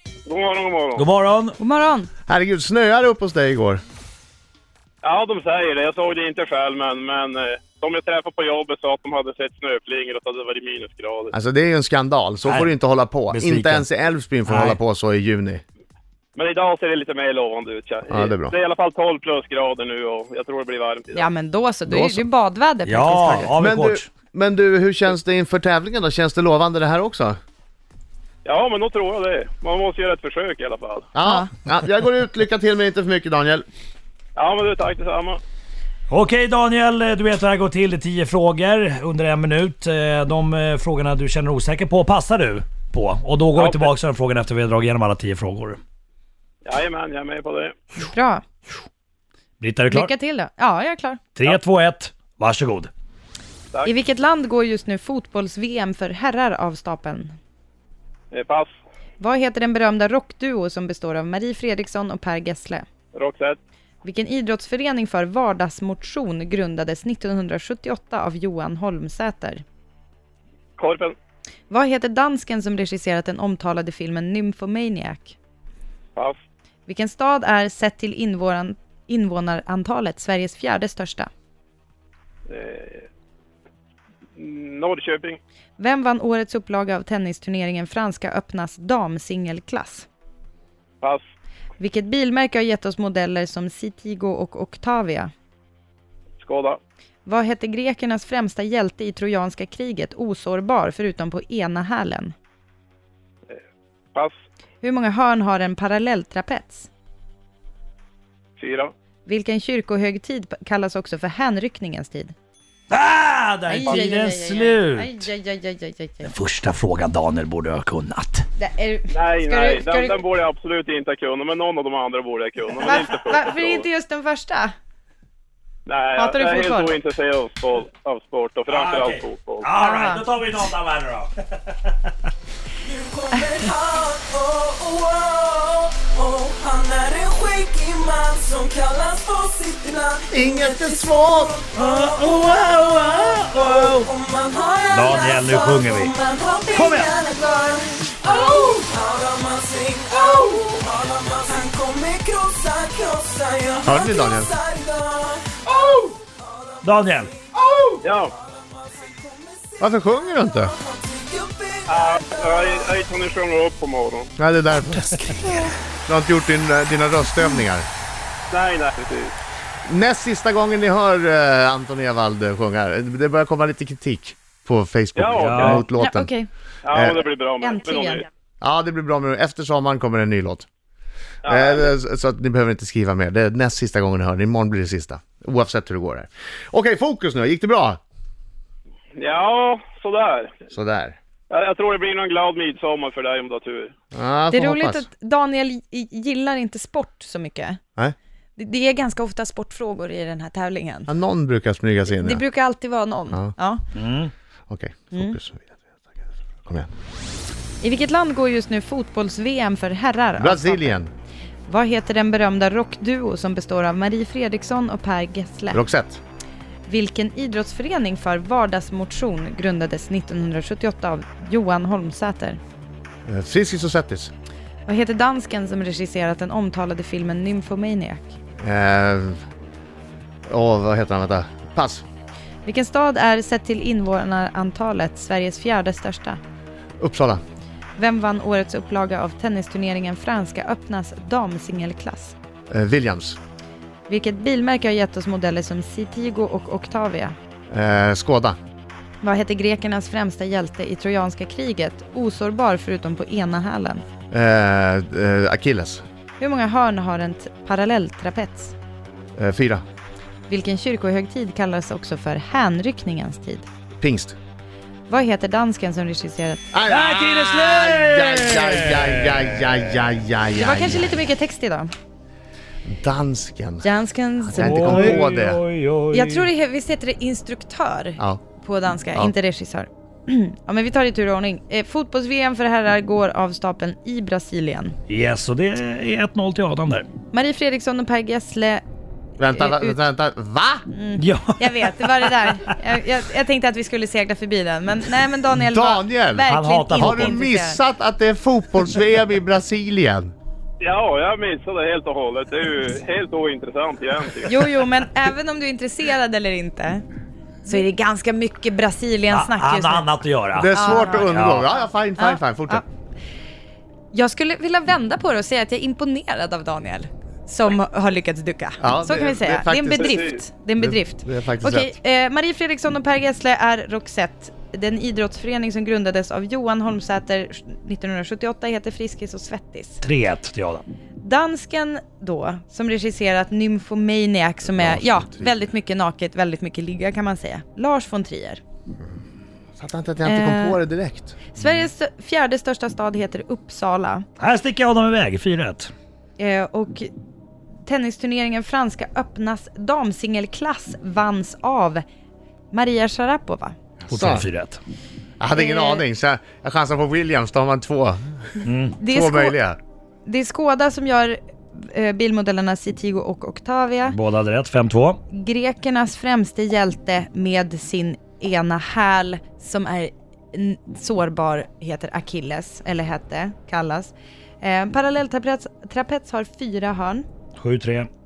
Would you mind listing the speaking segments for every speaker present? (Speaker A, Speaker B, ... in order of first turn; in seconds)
Speaker A: 0.3-1.1, 5.0-11.3, 16.4-21.3, 28.4-31.1, 34.4-35.4, 43.5-43.9, 46.6-47.8, 58.3-58.7, 63.1-63.6, 70.8-71.2, 82.5-83.0, 84.4-85.4, 96.4-96.8, 108.6-108.9, 119.1-123.8, 125.9-129.7, 158.0-158.3, 161.9-164.3, 168.5-169.3, 175.2-175.9, 176.8-178.2, 181.4-181.9, 189.2-190.5, 191.5-193.9, 300.8-304.6, 320.0-320.4
Speaker B: 1.0-1.6, 12.4-12.7, 13.3-13.9, 14.5-14.8, 22.9-24.1, 36.1-45.8, 49.6-50.1, 51.4-52.9, 112.9-115.2, 116.2-118.5, 128.7-132.0, 141.8-144.1, 144.9-146.1, 146.7-147.2, 156.8-157.3, 175.3-175.8, 204.0-204.3, 266.9-269.7, 274.6-276.5, 285.1-287.1, 291.2-292.7, 296.5-297.4, 309.3-310.7, 311.3-311.7, 330.0-330.8, 344.4-345.9, 354.1-354.8, 358.7-359.0, 364.1-365.2, 377.6-378.1
Speaker C: 1.6-2.1, 21.1-23.5, 31.2-31.5, 48.0-48.4, 49.9-51.2, 53.9-57.4, 59.2-62.9, 64.0-69.6, 71.7-75.4, 76.9-81.3, 85.8-90.1, 91.8-95.3, 97.2-102.3, 104.8-106.9, 109.3-112.3, 113.7-116.3, 118.6-120.2, 122.8-124.7, 126.2-127.0, 129.8-130.3, 175.9-176.5, 177.6-178.3, 194.5-197.8, 198.6-201.1, 202.1-203.8, 207.8-211.0, 211.7-215.8, 216.9-222.6, 224.9-228.4, 232.7-236.4, 238.0-242.3, 244.1-247.4, 249.2-254.1, 256.4-258.7, 260.5-263.7, 265.1-266.6, 270.6-271.9, 273.8-275.2, 276.1-284.9, 287.3-288.8, 289.4-290.0, 290.9-297.8, 304.5-307.0, 307.6-310.1, 310.7-311.4, 312.2-312.8, 314.1-330.0, 331.2-338.6, 340.2-340.8, 341.5-344.3, 346.4-347.1, 347.9-352.0, 352.7-353.8, 355.6-356.1, 359.0-359.6, 360.2-364.2, 365.3-377.3
Speaker D: 2.3-3.8, 11.3-15.6, 18.1-18.6, 21.9-22.3, 23.6-27.4, 31.1-33.7, 140.3-141.6, 153.8-154.5, 159.8-160.7, 164.4-165.4, 166.1-167.9, 169.8-176.3, 176.9-177.2, 178.6-180.7, 181.5-188.0, 190.7-191.2, 194.1-195.1, 201.1-202.4, 204.7-206.9, 210.4-211.1, 215.7-216.2, 223.2-224.3, 228.6-229.4, 230.5-232.1, 237.0-237.4, 242.7-243.4, 247.7-248.6, 254.3-256.0, 259.4-259.8, 263.9-264.4, 266.7-271.1, 272.9-275.6, 289.4-290.9, 295.6-300.3, 310.6-312.8, 318.8-320.2, 320.8-321.9, 334.7-335.5, 339.8-341.4, 354.0-354.5, 355.4-358.4, 359.1-359.8
Speaker E: 132.8-142.7, 143.5-156.7, 157.6-158.0, 158.6-163.0